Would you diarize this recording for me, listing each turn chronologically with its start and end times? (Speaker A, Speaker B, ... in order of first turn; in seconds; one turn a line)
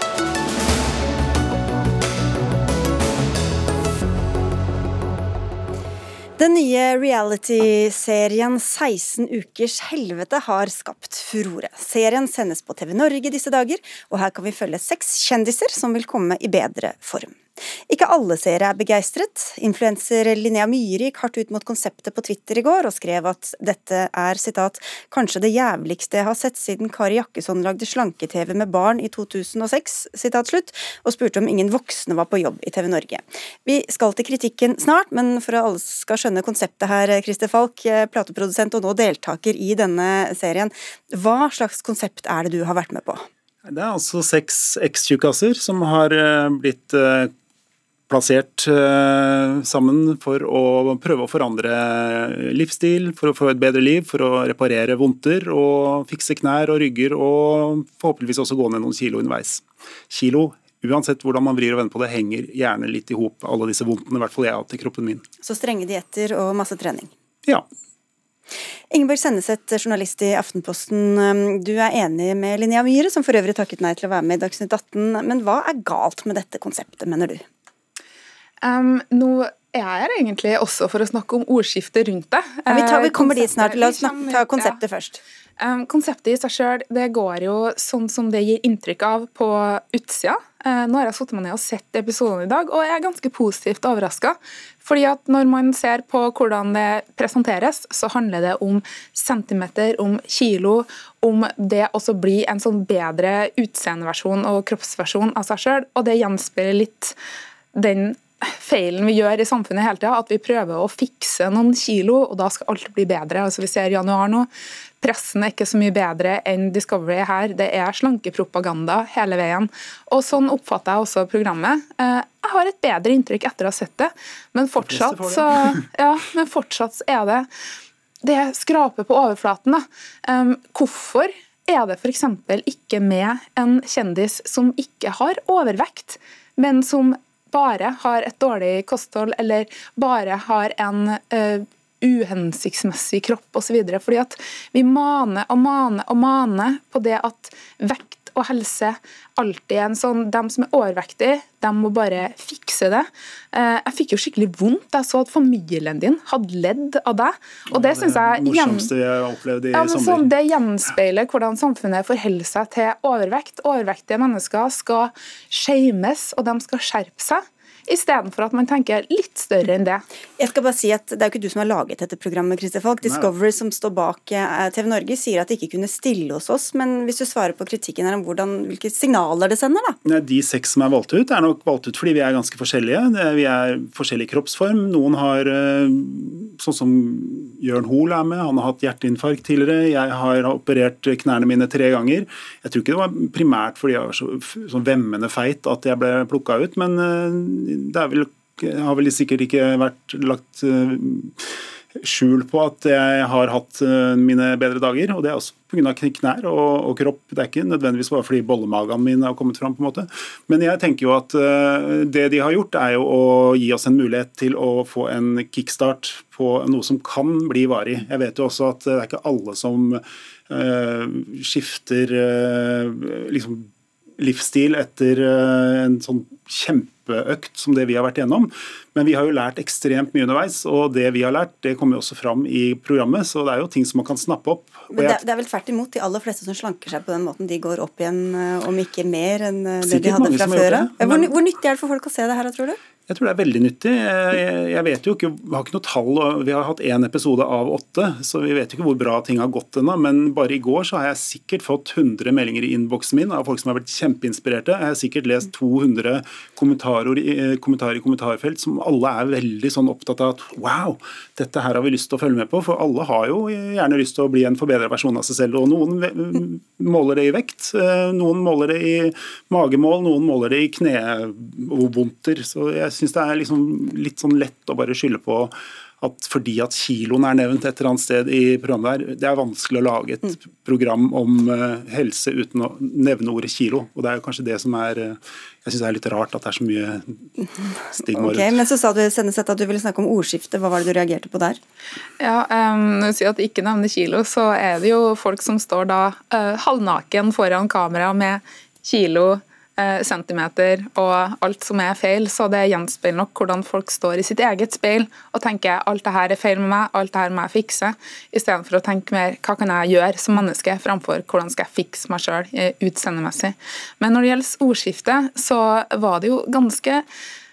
Speaker A: 6.4-43.3
Speaker B: 43.6-47.3
Speaker B: 48.1-65.2
Speaker A: 65.4-67.1
Speaker A: 68.9-77.4
Speaker C: 78.6-84.8
Speaker A: 82.7-85.2
Speaker C: 85.6-107.2
Speaker C: 107.7-127.5
Speaker B: 124.8-125.8
Speaker C: 128.2-158.9
Speaker B: 157.7-160.3
Speaker C: 159.8-170.1
Speaker A: 170.4-180.0
Speaker B: 173.0-173.3
Speaker B: 180.1-235.2
Speaker A: 234.9-242.8
Speaker B: 239.8-241.4
Speaker B: 243.1-288.6
Speaker A: 288.1-291.6
Speaker C: 292.2-317.1